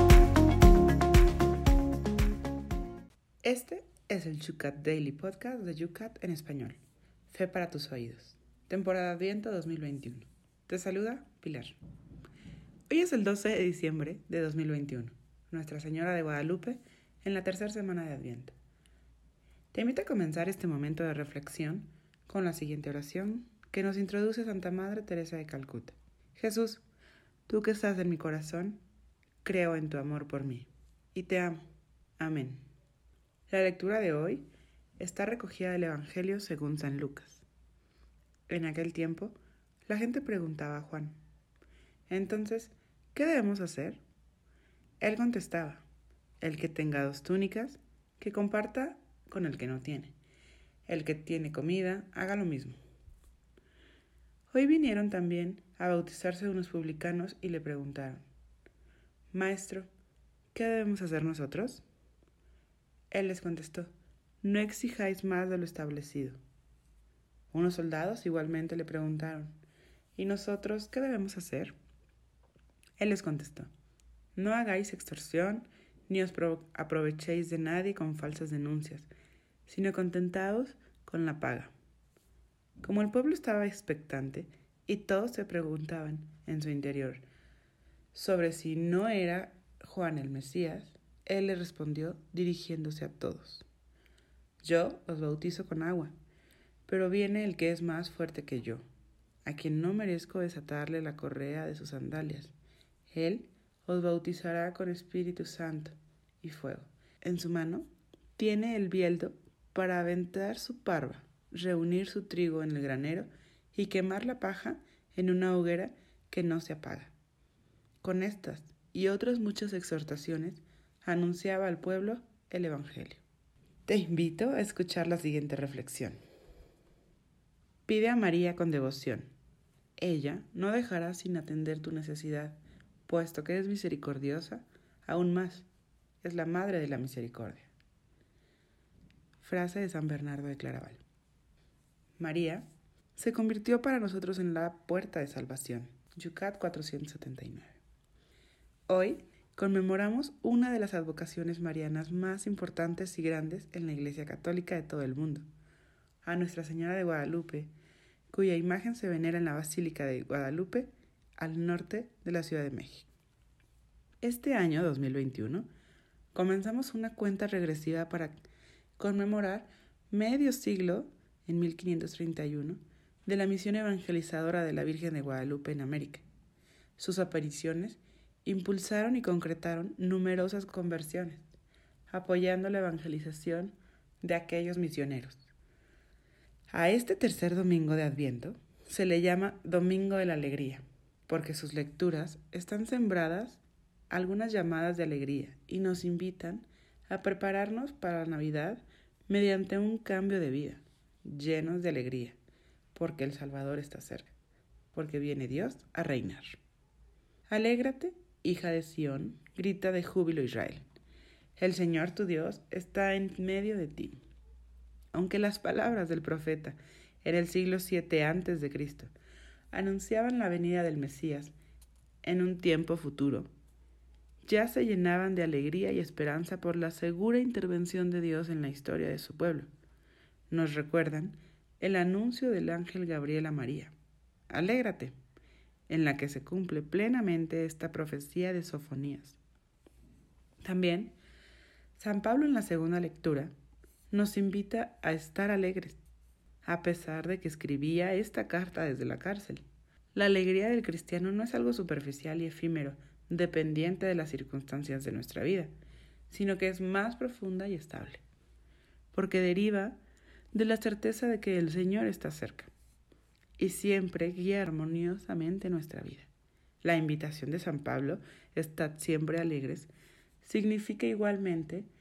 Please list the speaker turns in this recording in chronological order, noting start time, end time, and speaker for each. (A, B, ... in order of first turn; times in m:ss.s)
0:03.4-0:11.8 A
0:12.9-0:18.6 A
0:19.7-0:26.8 A
0:27.5-0:28.8 A
0:29.4-0:31.7 A
0:32.2-0:32.6 A
0:33.5-0:37.5 A
0:38.5-0:41.2 A
0:42.1-0:44.0 A
0:45.0-0:45.8 A
0:46.4-0:50.2 A
0:50.9-0:52.8 A
0:54.5-0:58.2 A
0:59.3-0:59.9 A
1:00.5-1:01.8 A
1:03.1-1:06.4 A
1:07.5-1:09.6 A
1:10.2-1:11.8 A
1:13.0-1:13.7 A
1:14.4-1:19.1 A
1:19.7-1:21.7 A
1:22.8-1:27.2 A
1:28.1-1:33.7 A
1:34.6-1:36.2 A
1:36.9-1:38.8 A
1:39.4-1:42.5 A
1:43.1-1:57.1 A
1:58.0-2:03.2 A
2:03.9-2:06.2 A
2:07.9-2:09.3 A
2:10.0-2:15.7 A
2:16.2-2:17.7 A
2:19.4-2:21.0 A
2:22.2-2:27.8 A
2:28.9-2:35.5 A
2:36.2-2:37.7 A
2:38.3-2:43.1 A
2:44.2-2:45.7 A
2:46.3-2:48.4 A
2:49.0-2:56.3 A
2:57.0-3:01.4 A
3:02.1-3:05.5 A
3:06.7-3:22.4 A
3:22.9-3:24.3 A
3:24.9-3:26.6 A
3:27.5-3:30.9 A
3:31.6-3:34.2 A
3:35.1-3:39.1 A
3:39.7-3:41.5 A
3:42.2-3:43.5 A
3:44.4-3:49.7 A
3:50.5-3:53.9 A
3:54.5-3:55.2 A
3:55.9-3:59.4 A
4:00.6-4:01.2 A
4:02.0-4:03.5 A
4:04.1-4:06.0 A
4:06.6-4:09.6 A
4:10.1-4:15.7 A
4:16.3-4:18.2 A
4:19.1-4:20.0 A
4:20.5-4:22.7 A
4:23.6-4:26.3 A
4:26.8-4:29.9 A
4:30.4-4:31.9 A